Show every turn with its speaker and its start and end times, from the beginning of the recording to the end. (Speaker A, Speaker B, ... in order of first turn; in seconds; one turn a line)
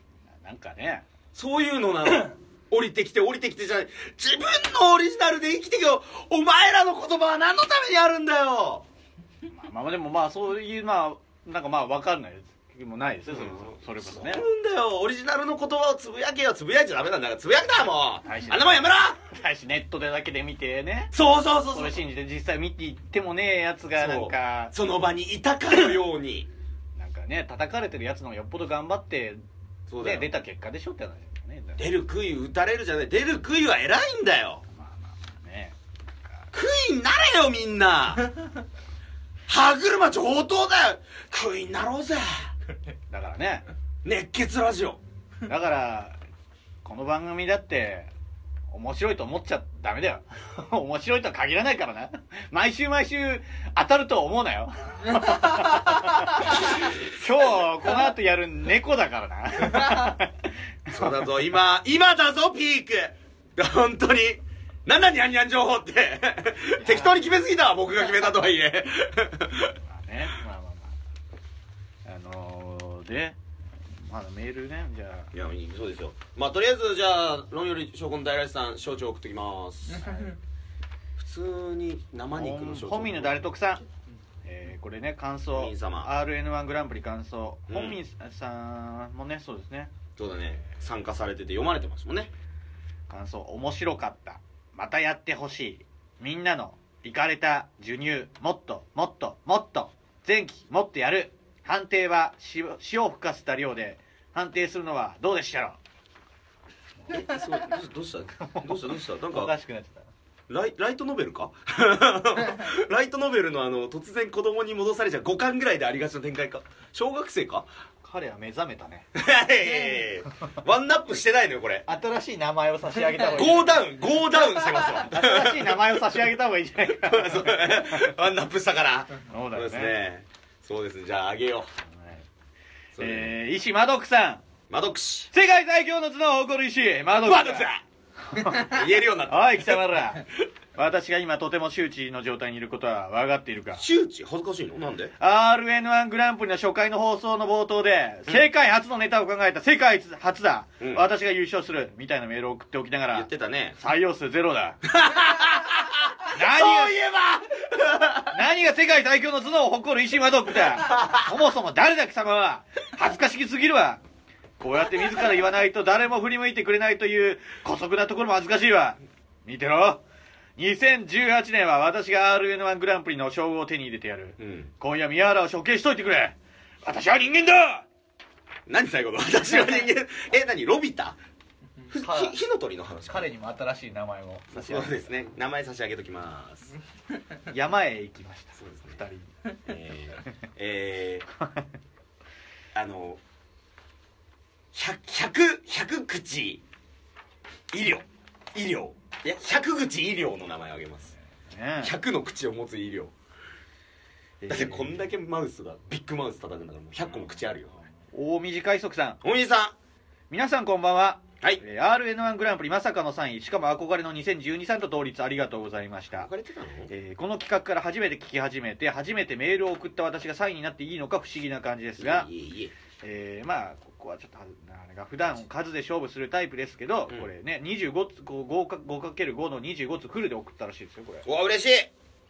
Speaker A: 0.4-1.1
Speaker B: 1.3-8.8
Speaker A: 9.5-14.4
Speaker B: 13.3-19.2
Speaker A: 18.2-21.1
Speaker B: 21.1-22.0
Speaker A: 21.7-24.7
Speaker B: 23.9-26.5
Speaker A: 26.9-29.4
Speaker B: 29.9-30.3
Speaker A: 30.0-31.9
Speaker B: 31.8-34.6
Speaker A: 34.7-35.8
Speaker B: 36.5-38.3
Speaker B: 39.5-42.5
Speaker A: 43.1-43.6
Speaker B: 44.0-45.0
Speaker A: 45.5-46.2
Speaker A: 46.8-48.1
Speaker A: 48.7-60.5
Speaker B: 60.9-69.8
Speaker A: 66.8-67.2
Speaker A: 69.8-71.0
Speaker A: 72.0-73.4
Speaker A: 73.9-75.3
Speaker B: 75.3-80.2
Speaker B: 81.2-83.5
Speaker A: 82.3-83.8
Speaker A: 84.4-89.9
Speaker B: 85.5-86.1
Speaker B: 87.7-88.0
Speaker B: 90.2-92.3
Speaker A: 93.1-105.8
Speaker B: 107.1-109.5
Speaker A: 108.4-110.1
Speaker B: 110.5-117.7
Speaker A: 118.0-119.1
Speaker B: 119.1-121.8
Speaker A: 121.8-123.9
Speaker B: 123.3-126.2
Speaker A: 125.0-128.1
Speaker B: 126.9-131.7
Speaker A: 129.3-129.9
Speaker A: 131.8-132.2
Speaker B: 132.9-133.3
Speaker A: 133.0-134.4
Speaker B: 134.7-135.3
Speaker A: 135.3-137.7
Speaker B: 137.2-137.8
Speaker A: 138.3-143.8
Speaker B: 138.3-139.8
Speaker B: 143.8-145.1
Speaker A: 145.2-154.8
Speaker B: 150.8-151.0
Speaker B: 153.1-153.8
Speaker B: 154.9-158.4
Speaker A: 156.3-157.0
Speaker A: 158.2-164.0
Speaker B: 160.9-161.2
Speaker A: 164.6-170.0
Speaker A: 170.6-177.9
Speaker B: 174.4-174.7
Speaker B: 178.7-181.2
Speaker A: 181.9-182.4
Speaker B: 181.9-183.3
Speaker A: 183.1-185.1
Speaker B: 184.5-186.7
Speaker A: 187.5-189.3
Speaker B: 188.6-189.0
Speaker B: 189.6-191.3
Speaker B: 192.7-193.2
Speaker B: 194.7-196.6
Speaker B: 197.7-201.1
Speaker A: 201.5-201.9
Speaker B: 201.8-203.1
Speaker A: 204.4-205.0
Speaker B: 204.5-207.7
Speaker A: 208.1-209.2
Speaker B: 209.2-209.8
Speaker A: 210.3-216.3
Speaker B: 216.1-216.9
Speaker A: 216.9-222.3
Speaker B: 222.0-222.7
Speaker A: 223.0-231.3
Speaker B: 231.2-231.9